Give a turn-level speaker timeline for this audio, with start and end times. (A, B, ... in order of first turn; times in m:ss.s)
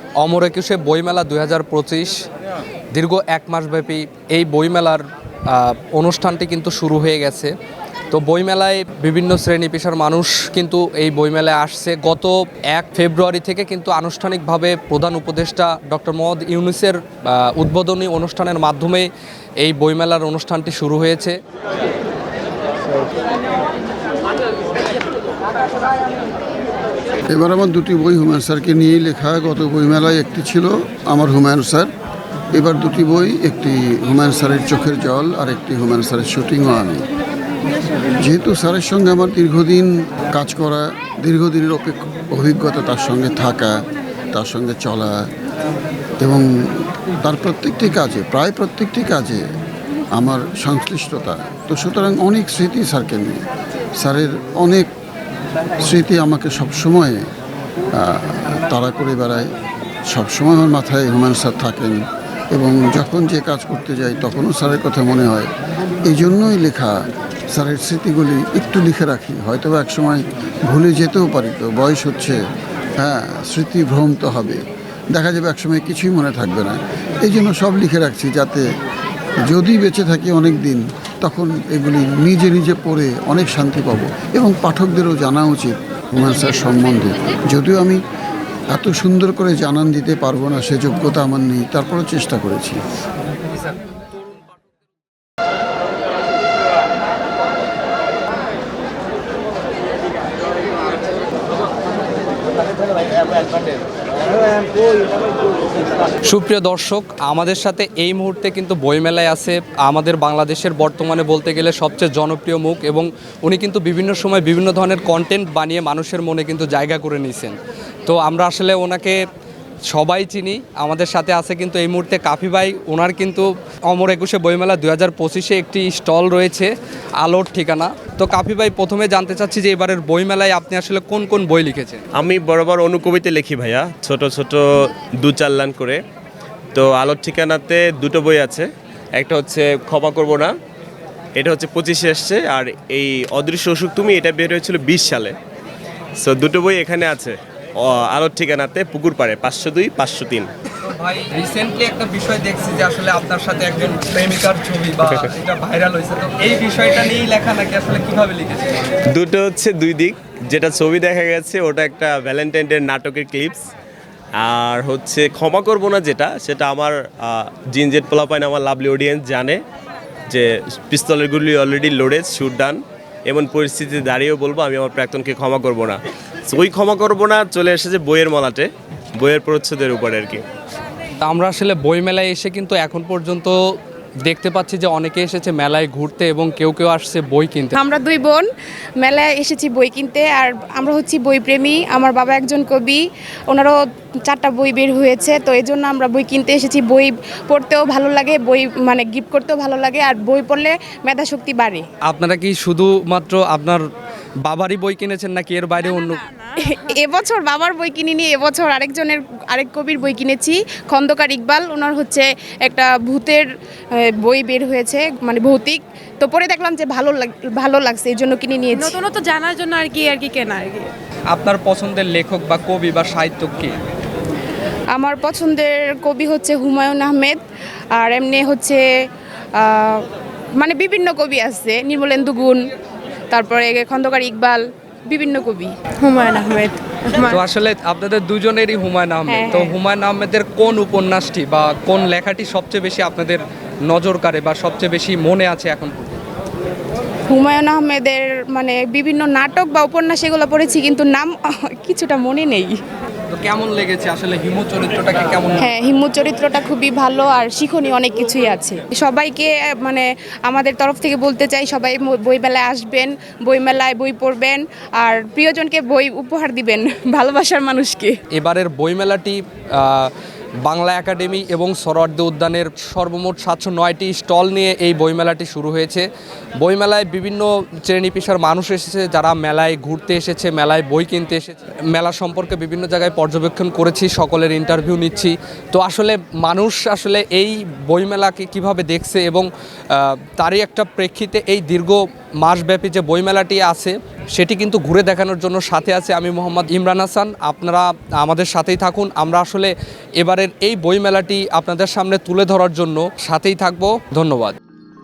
0:00.2-0:02.2 A
0:02.9-0:07.5 A
0:08.1-0:19.1 A
0:19.6-0:21.4 A
0:27.3-0:31.9 B
0:32.5-0:37.1 B
0:38.2-0:45.3 B
0:46.2-0:49.4 B
0:50.2-0:53.4 B
0:54.0-0:54.9 B
0:55.8-0:57.3 B
0:58.0-0:59.5 B
1:00.1-1:02.0 B
1:02.5-1:05.5 B
1:06.1-1:06.9 B
1:07.5-1:12.4 B
1:13.0-1:14.6 B
1:15.1-1:18.7 B
1:19.4-1:28.0 B
1:28.7-1:32.8 B
1:46.2-1:59.2 A
1:59.9-2:12.0 A
2:12.2-2:16.0 C
2:16.7-2:20.5 C
2:21.4-2:25.4 C
2:26.2-2:30.5 C
2:30.8-2:38.8 A
2:39.1-2:43.6 C
2:44.4-2:49.6 C
2:50.3-3:00.4 C
3:01.2-3:03.6 A
3:04.2-3:07.8 A
3:07.8-3:08.4 D
3:09.0-3:21.8 D
3:22.0-3:23.8 A
3:24.4-3:26.2 A
3:25.8-3:26.8 E
3:26.6-3:39.0 D
3:38.7-3:40.9 E
3:41.3-3:43.8 A
3:44.9-3:47.4 D
3:47.9-3:48.8 D
3:49.5-3:50.0 D
3:50.6-3:52.6 D
3:53.3-3:55.7 D
3:56.0-3:57.4 E
3:57.2-4:06.2 A
3:59.3-3:59.7 D
4:07.3-4:12.8 D
4:13.3-4:15.7 A
4:15.6-4:28.2 D
4:28.3-4:30.1 A
4:30.6-4:36.1 A
4:36.6-5:04.6 A